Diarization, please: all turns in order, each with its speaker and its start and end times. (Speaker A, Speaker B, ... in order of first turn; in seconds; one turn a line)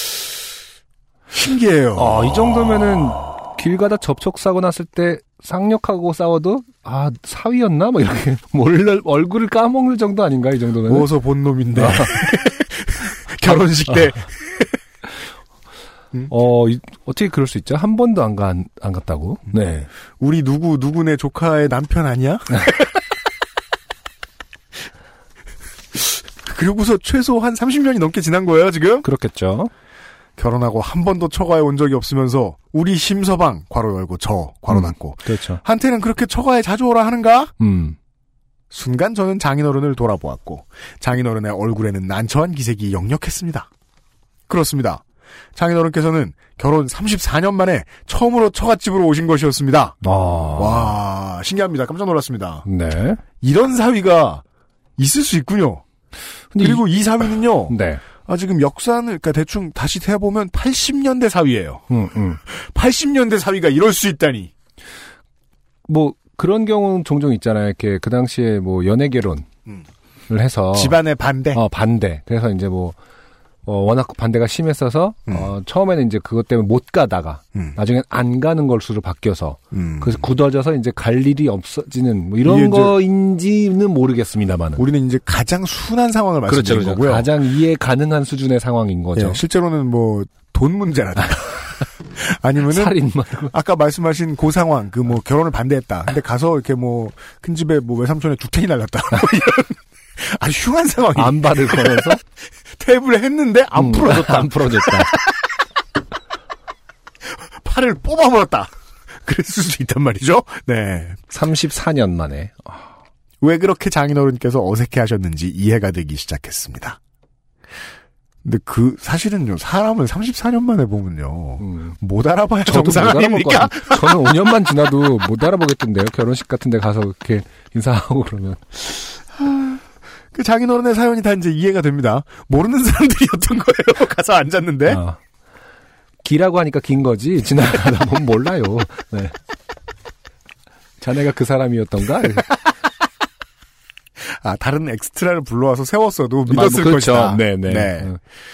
Speaker A: 1.3-2.3
Speaker B: 2.0-11.1
Speaker A: 10.9-14.8
Speaker B: 11.8-12.3
Speaker B: 13.5-14.0
Speaker B: 16.3-19.9
Speaker A: 20.2-23.0
Speaker A: 25.9-29.1
Speaker B: 29.0-29.7
Speaker A: 30.4-37.5
Speaker B: 34.7-35.6
Speaker B: 37.6-38.0
Speaker A: 38.7-43.7
Speaker A: 44.5-45.0
Speaker A: 45.5-50.0
Speaker B: 50.0-51.0
Speaker A: 50.6-52.7
Speaker B: 52.7-53.2
Speaker A: 53.4-54.4
Speaker A: 55.0-55.9
Speaker B: 56.5-56.9
Speaker A: 56.6-61.9
Speaker B: 57.7-58.0
Speaker B: 61.9-62.4
Speaker A: 62.5-64.5
Speaker B: 65.9-69.5
Speaker B: 70.3-71.0
Speaker A: 70.7-71.6
Speaker B: 71.5-73.0
Speaker B: 73.7-84.8
Speaker A: 79.7-80.2
Speaker A: 82.4-83.0
Speaker A: 84.8-87.3
Speaker B: 86.5-89.4
Speaker A: 89.1-102.2
Speaker B: 92.7-93.5
Speaker B: 101.2-102.2
Speaker A: 102.8-105.3
Speaker B: 103.8-105.1
Speaker A: 107.4-108.7
Speaker A: 109.2-111.2
Speaker B: 111.3-112.9
Speaker A: 113.4-117.0
Speaker A: 118.4-124.5
Speaker B: 121.6-122.0
Speaker B: 122.7-128.7
Speaker A: 129.4-129.8
Speaker A: 130.3-135.0
Speaker B: 134.9-135.2
Speaker B: 136.2-139.3
Speaker B: 141.0-142.5
Speaker A: 144.2-148.2
Speaker B: 146.5-148.2